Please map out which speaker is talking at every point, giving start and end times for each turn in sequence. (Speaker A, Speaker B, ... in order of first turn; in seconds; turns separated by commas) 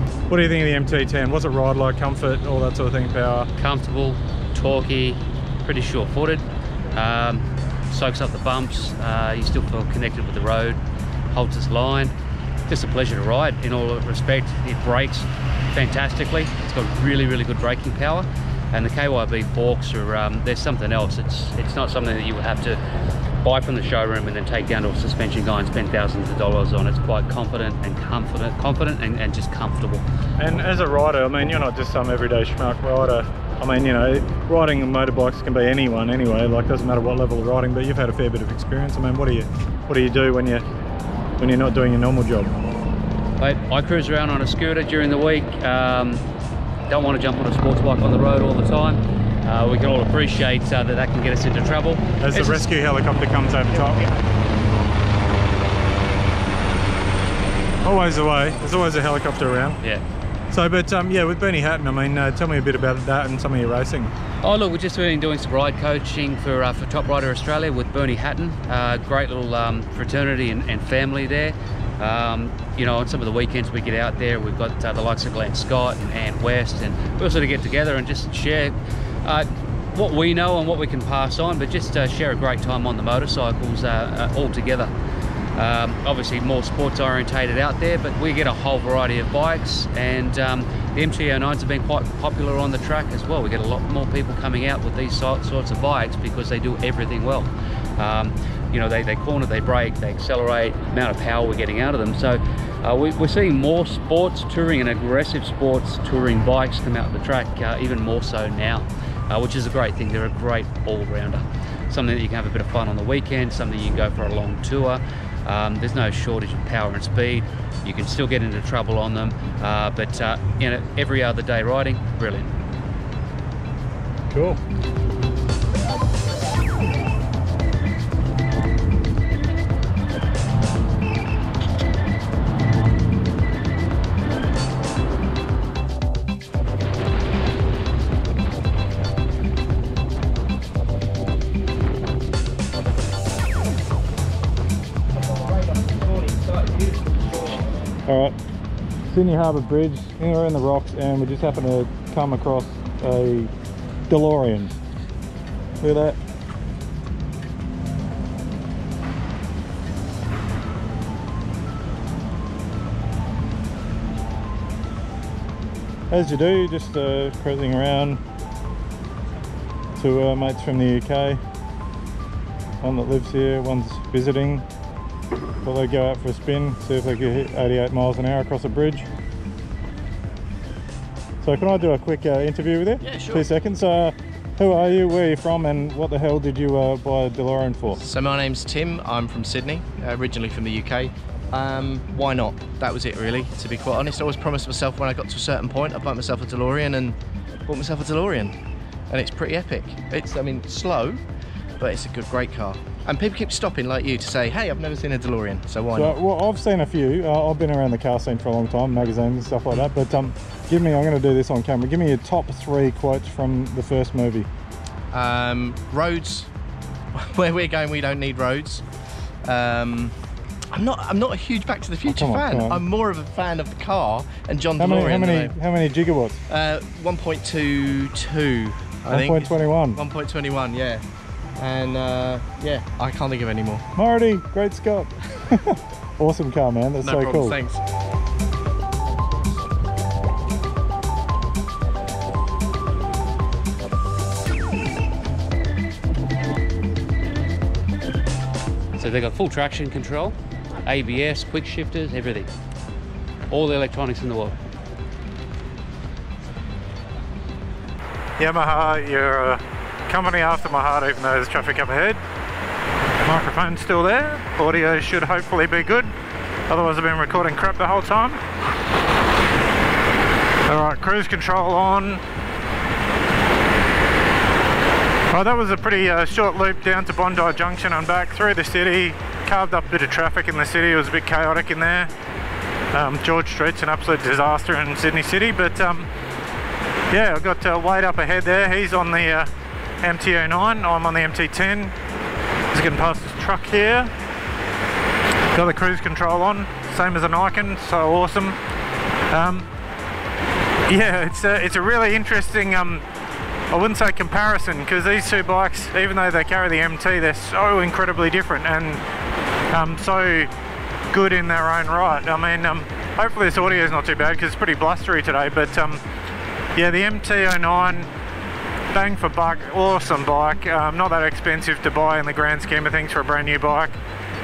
Speaker A: 0.3-3.5, Speaker B: 3.6-10.8, Speaker B: 11.3-12.2, Speaker B: 12.7-22.8, Speaker B: 23.4-30.0, Speaker A: 30.4-40.6, Speaker A: 41.4-42.5, Speaker B: 43.4-46.2, Speaker B: 46.9-52.6, Speaker A: 52.2-54.1, Speaker A: 57.8-59.8, Speaker A: 60.5-64.1, Speaker B: 64.4-84.9, Speaker B: 85.6-122.5, Speaker A: 124.3-124.6, Speaker C: 145.7-147.2, Speaker A: 148.1-148.4, Speaker A: 149.1-153.5, Speaker A: 154.1-154.8, Speaker A: 155.8-156.2, Speaker A: 166.1-168.2, Speaker A: 169.9-171.4, Speaker A: 172.8-174.7, Speaker A: 175.6-179.1, Speaker A: 181.4-188.0, Speaker C: 183.0-183.5, Speaker C: 188.0-197.2, Speaker C: 197.7-198.6, Speaker C: 199.1-201.2, Speaker C: 201.8-206.2, Speaker A: 205.9-214.5, Speaker C: 215.1-216.5, Speaker C: 217.1-218.8, Speaker C: 219.4-220.2, Speaker C: 220.7-225.6, Speaker A: 222.1-222.8, Speaker A: 224.8-226.4, Speaker C: 226.5-231.0, Speaker A: 229.1-230.0, Speaker C: 231.6-233.8, Speaker A: 233.9-237.6, Speaker C: 237.0-237.8, Speaker B: 249.0-252.5, Speaker B: 253.5-254.6, Speaker A: 258.4-262.2, Speaker A: 263.2-266.1, Speaker A: 266.7-268.4, Speaker A: 270.7-272.2, Speaker A: 275.3-282.1, Speaker A: 282.9-286.1, Speaker A: 287.1-289.5, Speaker A: 290.0-291.9, Speaker A: 292.7-294.1, Speaker A: 295.5-298.6, Speaker A: 299.3-299.7, Speaker A: 300.9-303.1, Speaker A: 303.7-309.0, Speaker A: 309.7-310.5, Speaker A: 311.1-316.0, Speaker A: 316.8-318.1, Speaker A: 318.9-324.0